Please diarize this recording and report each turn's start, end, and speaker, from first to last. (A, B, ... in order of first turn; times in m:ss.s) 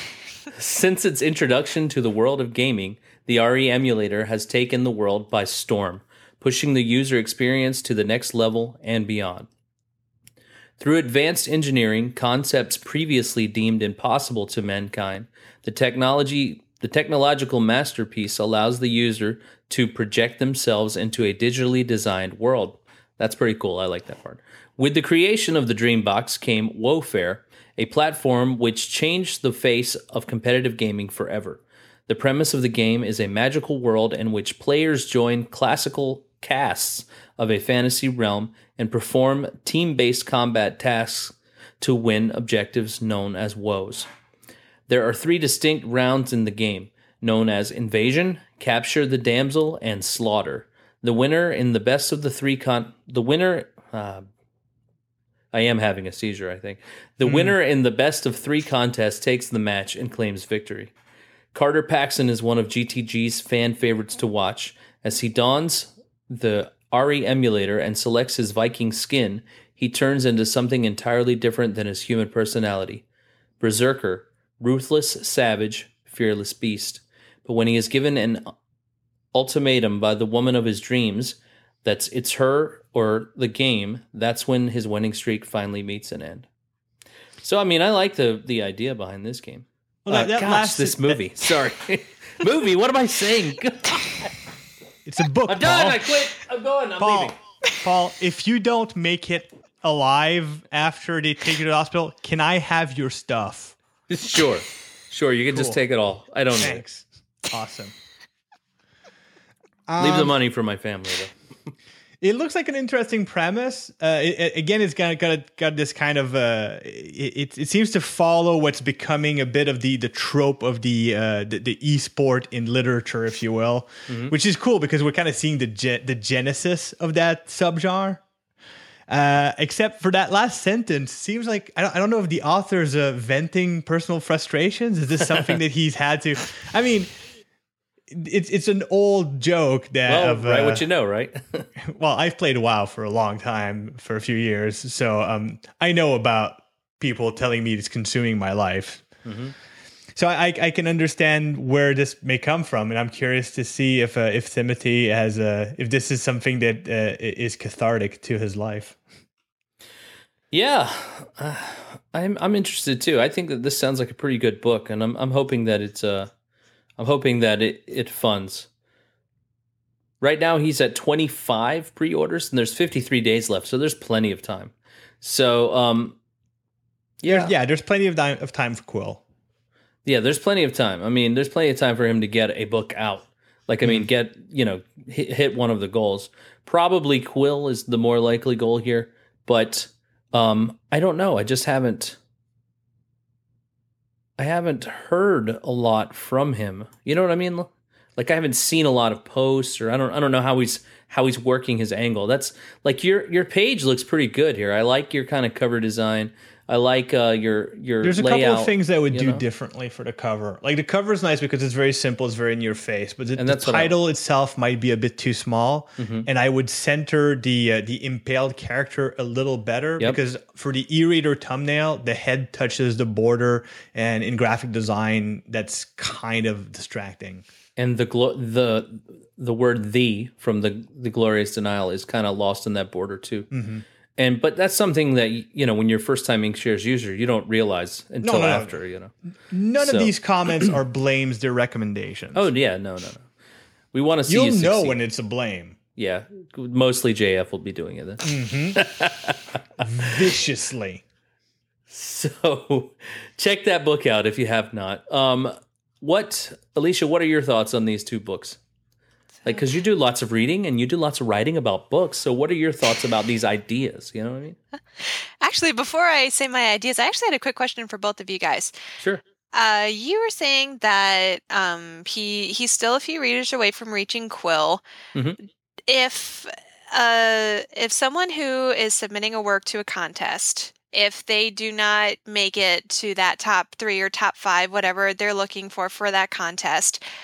0:00.5-0:09.5 A
0:10.8-0:44.1 A
0:44.9-0:54.2 A
0:55.5-1:00.9 A
0:57.2-0:57.6 B
1:01.5-1:13.0 A
1:13.6-1:18.5 A
1:19.3-1:26.5 A
1:27.4-1:34.3 A
1:30.0-1:31.2 B
1:35.0-1:36.1 B
1:35.5-1:37.4 A
1:37.0-1:43.8 B
1:44.1-1:46.8 A
1:45.5-1:45.8 B
1:46.5-1:48.0 B
1:49.9-1:50.3 B
1:50.0-1:51.4 A
1:52.2-2:08.2 B
2:09.1-2:17.2 B
2:18.1-2:20.8 B
2:20.1-2:21.7 A
2:21.8-2:29.1 B
2:29.2-2:29.5 A
2:30.2-2:39.0 B
2:40.5-2:46.3 A
2:47.0-2:48.7 A
2:50.2-2:56.2 A
2:57.2-2:57.5 A
2:57.2-2:59.2 B
3:00.0-3:12.2 A
3:14.4-3:29.4 A
3:28.0-3:47.4 B
3:33.4-3:34.0 A
3:36.0-3:36.3 A
3:47.8-3:53.5 A
3:53.5-3:53.8 B
3:54.2-3:59.1 A
3:58.2-3:58.8 B
3:59.5-4:02.5 B
3:59.8-4:00.7 A
4:02.3-4:03.3 A
4:03.9-4:05.0 A
4:04.3-4:05.8 B
4:06.0-4:09.8 A
4:08.2-4:08.8 B
4:09.8-4:11.0 B
4:11.9-4:18.6 A
4:19.4-4:24.6 A
4:25.0-4:28.7 C
4:29.5-4:34.8 C
4:35.9-4:47.0 C